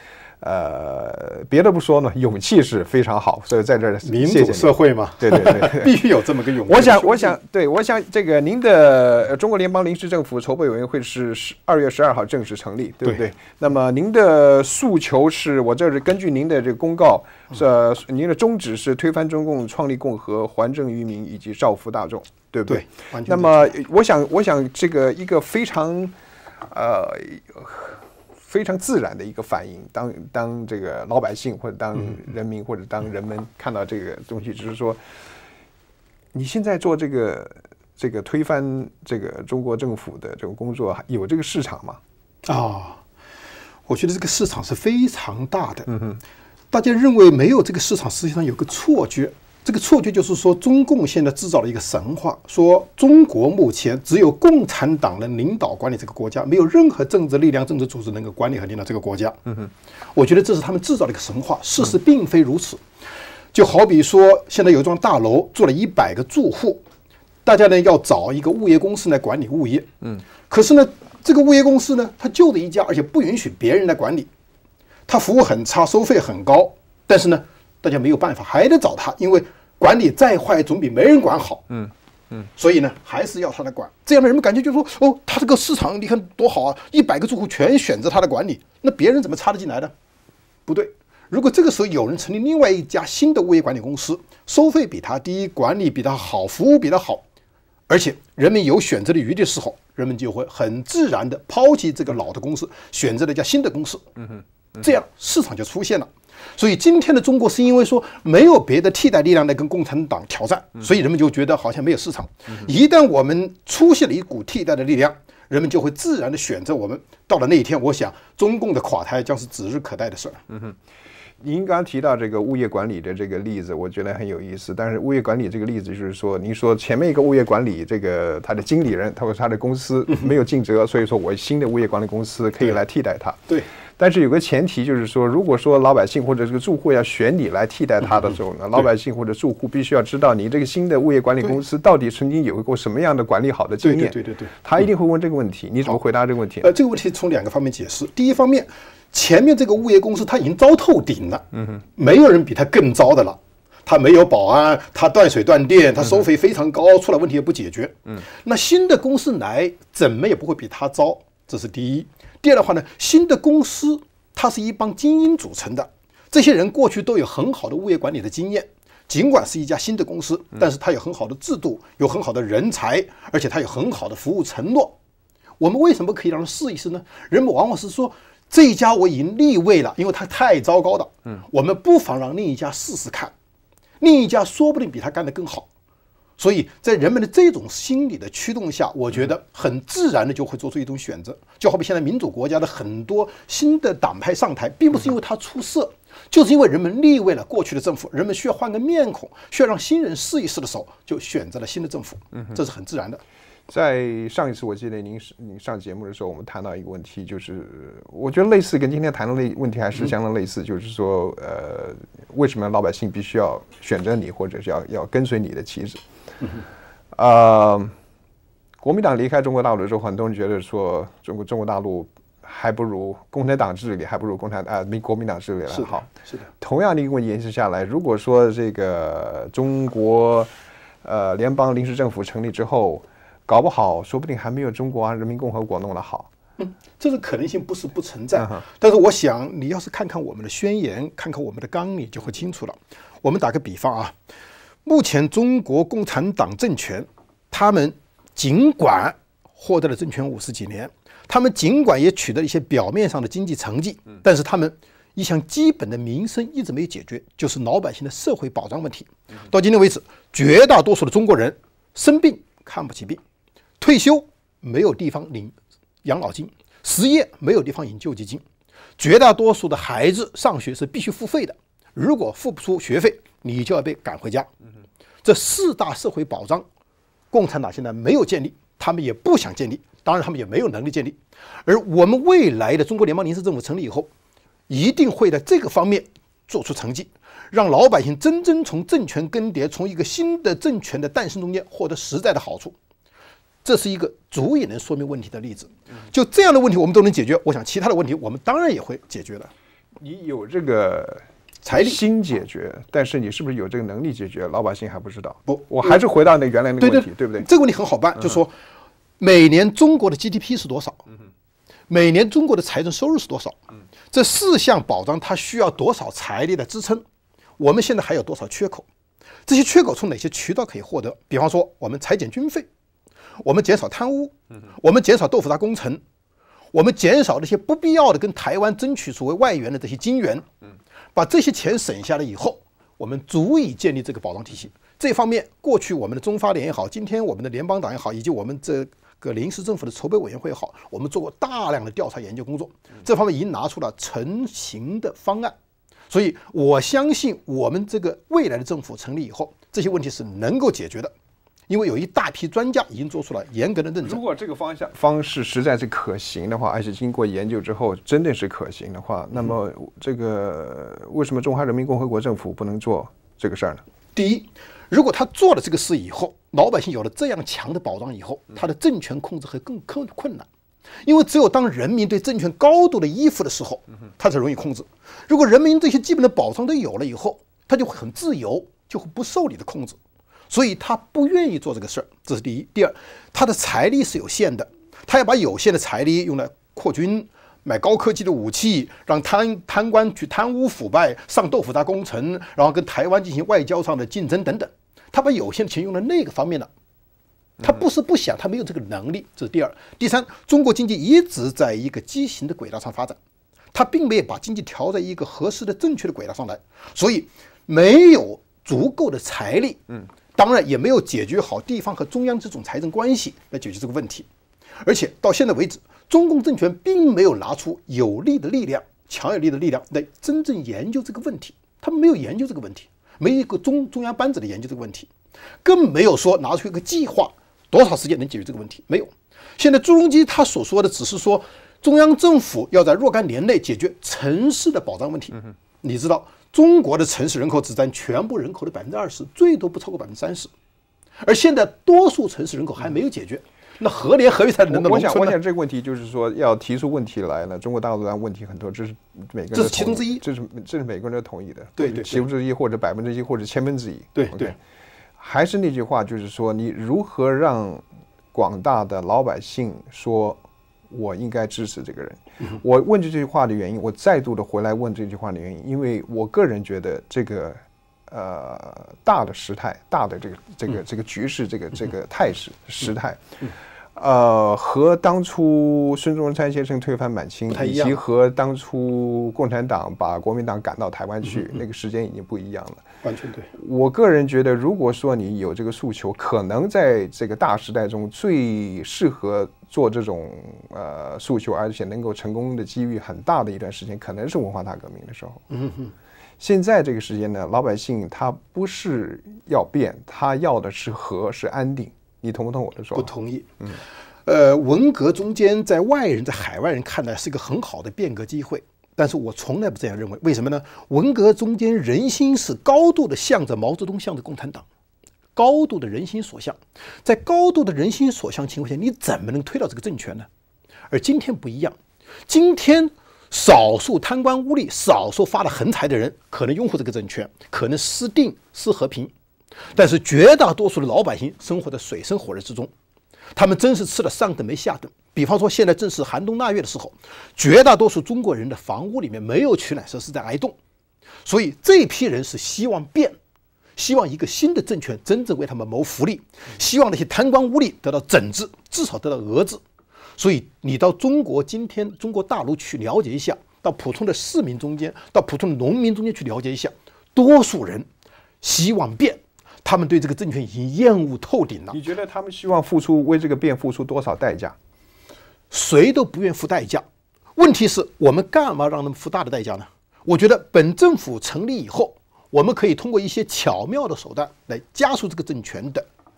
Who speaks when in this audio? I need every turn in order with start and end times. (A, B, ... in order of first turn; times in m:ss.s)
0:00.4-0:05.9 A
0:04.0-0:07.4 B
0:06.7-0:26.1 A
0:22.7-0:23.8 B
0:26.7-0:35.0 A
0:36.3-0:42.0 A
0:42.4-0:43.0 B
0:43.9-0:45.9 B
0:45.9-0:46.2 A
0:46.7-0:59.4 B
1:00.2-1:02.8 B
1:03.5-1:06.8 B
1:07.4-1:09.9 B
1:10.5-1:14.3 B
1:15.1-1:21.7 B
1:21.7-1:22.4 A
1:22.6-1:29.9 B
1:30.7-1:37.2 B
1:37.9-1:44.0 B
1:44.8-2:00.4 B
2:00.5-2:00.8 A
2:01.4-2:26.7 A
2:23.8-2:24.5 B
2:26.6-2:31.4 B
2:32.0-2:55.0 B
2:55.6-3:03.3 B
3:04.0-3:05.7 B
3:06.4-3:23.2 B
3:23.7-3:36.0 A
3:37.1-3:37.9 A
3:38.8-3:50.5 A
3:45.7-3:46.5 B
3:51.0-3:56.3 A
3:56.6-4:04.2 B
3:58.4-3:58.6 A
4:04.8-4:23.2 B
4:23.8-4:28.4 B
4:29.0-4:34.5 B
4:35.2-4:36.7 B
4:37.3-4:44.1 B
4:44.7-4:52.8 B
4:53.6-4:59.5 B
5:00.0-5:01.2 A
5:01.6-5:02.0 B
5:01.8-5:07.5 A
5:05.5-5:06.0 B
5:06.8-5:08.5 B
5:09.2-5:11.0 B
5:11.9-5:13.6 B
5:14.1-5:17.0 B
5:17.6-5:18.9 B
5:19.5-5:22.7 B
5:23.4-5:26.0 B
5:26.7-5:30.4 B
5:31.2-5:45.5 B
5:46.1-5:51.1 B
5:51.7-5:54.2 B
5:54.0-6:03.8 A
6:04.2-6:10.5 B
6:11.0-6:20.0 B
6:20.5-6:36.7 B
6:37.6-6:43.2 B
6:43.7-6:54.3 B
6:54.8-7:05.1 B
7:05.6-7:20.5 B
7:21.2-7:25.4 B
7:24.7-7:34.5 A
7:29.5-7:30.2 B
7:31.8-7:32.2 B
7:34.2-7:34.6 B
7:35.2-7:37.8 A
7:38.3-7:40.4 A
7:40.9-7:53.2 A
7:54.0-8:02.9 A
7:57.5-7:58.0 B
8:01.2-8:01.6 B
8:03.0-8:03.5 B
8:03.6-8:15.4 A
8:15.5-8:15.9 B
8:16.4-8:23.1 A
8:23.0-8:23.5 B
8:24.3-8:34.6 B
8:35.4-8:40.3 B
8:40.9-8:41.8 B
8:42.3-8:49.1 B
8:49.8-8:52.7 B
8:53.4-9:00.6 B
9:01.2-9:03.2 B
9:03.8-9:09.6 B
9:10.2-9:17.9 B
9:18.4-9:21.8 B
9:21.7-9:24.6 A
9:25.5-9:26.8 B
9:27.4-9:35.9 B